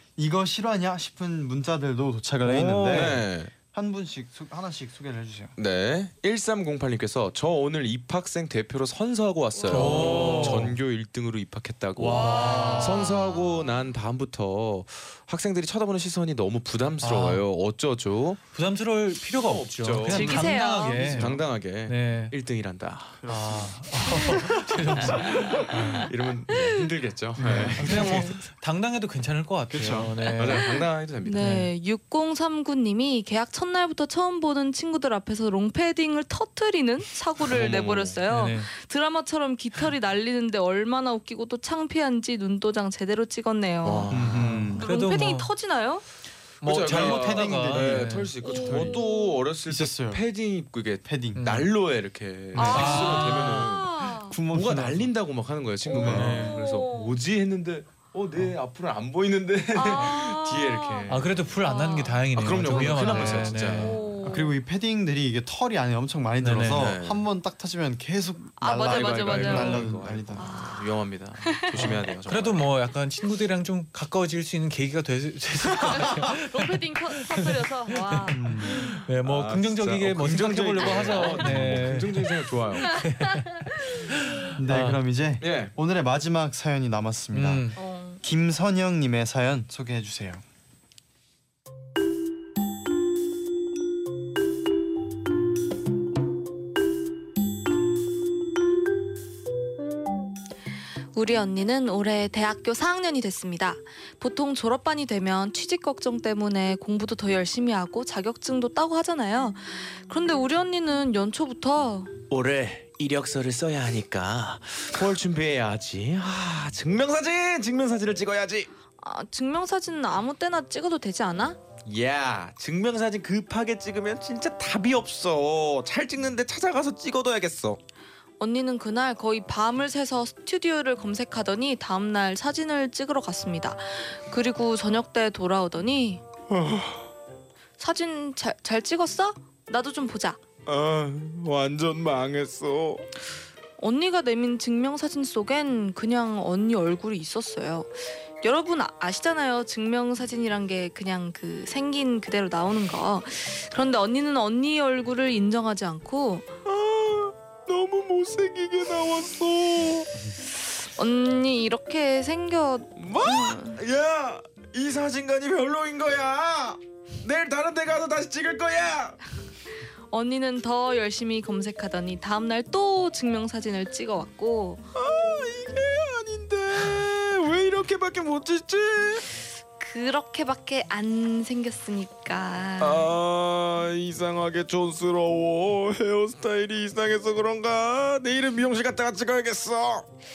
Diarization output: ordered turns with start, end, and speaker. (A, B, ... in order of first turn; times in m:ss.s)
0:00.2-0:05.6 A
0:02.4-0:03.2 B
0:02.9-0:03.5 C
0:05.6-0:18.4 C
0:09.7-0:10.8 B
0:09.8-0:10.7 A
0:12.0-0:13.1 B
0:12.1-0:13.6 D
0:17.0-0:17.4 B
0:18.5-0:22.4 B
0:19.3-0:23.3 C
0:20.1-0:21.2 D
0:20.9-0:21.4 A
0:23.2-0:23.8 A
0:23.3-0:26.1 B
0:24.2-0:28.4 C
0:26.5-0:26.8 D
0:27.4-0:30.7 B
0:27.4-0:28.2 A
0:28.0-0:28.3 D
0:29.7-0:31.6 C
0:29.8-0:30.1 A
0:30.4-0:44.1 D
0:31.4-0:31.7 B
0:37.4-0:38.2 C
0:38.3-0:38.7 B
0:43.8-0:44.7 C
0:44.1-0:44.9 A
0:44.3-0:45.5 B
0:44.8-0:46.0 D
0:46.6-0:48.4 B
0:46.6-1:01.6 C
0:46.8-0:49.0 A
0:48.4-0:49.4 D
0:49.7-0:50.2 A
0:51.0-0:51.7 A
0:51.4-0:51.7 B
0:52.6-0:53.1 A
0:52.6-0:53.6 B
0:52.6-0:54.4 D
0:54.2-0:55.1 A
0:55.9-0:56.5 A
0:56.0-0:56.6 B
0:56.0-0:57.2 D
0:59.7-1:04.5 D
1:01.1-1:04.0 B
1:02.4-1:04.2 C
1:04.2-1:10.6 A
1:06.4-1:06.9 B
1:06.7-1:07.2 C
1:08.6-1:10.9 D
1:08.8-1:12.7 C
1:11.5-1:11.9 D
1:11.8-1:25.0 B
1:15.9-1:19.0 D
1:18.3-1:18.8 A
1:19.2-1:23.1 C
1:22.9-1:23.7 D
1:24.6-1:27.7 A
1:25.4-1:25.7 C
1:27.3-1:27.8 B
1:27.8-1:28.2 D
1:28.2-1:30.4 A
1:41.1-1:52.2 D
1:52.3-1:58.7 C
1:59.0-2:01.6 D
2:01.8-2:07.8 C
2:08.4-2:16.2 D
2:16.5-2:17.0 C
2:17.8-2:20.4 D
2:20.7-2:23.1 C
2:23.8-2:36.5 D
2:36.6-2:40.1 C
2:41.0-2:43.8 D
2:43.0-2:49.2 C
2:50.1-2:54.8 D
2:54.9-2:59.2 C
2:59.8-3:03.1 D
3:02.8-3:10.1 C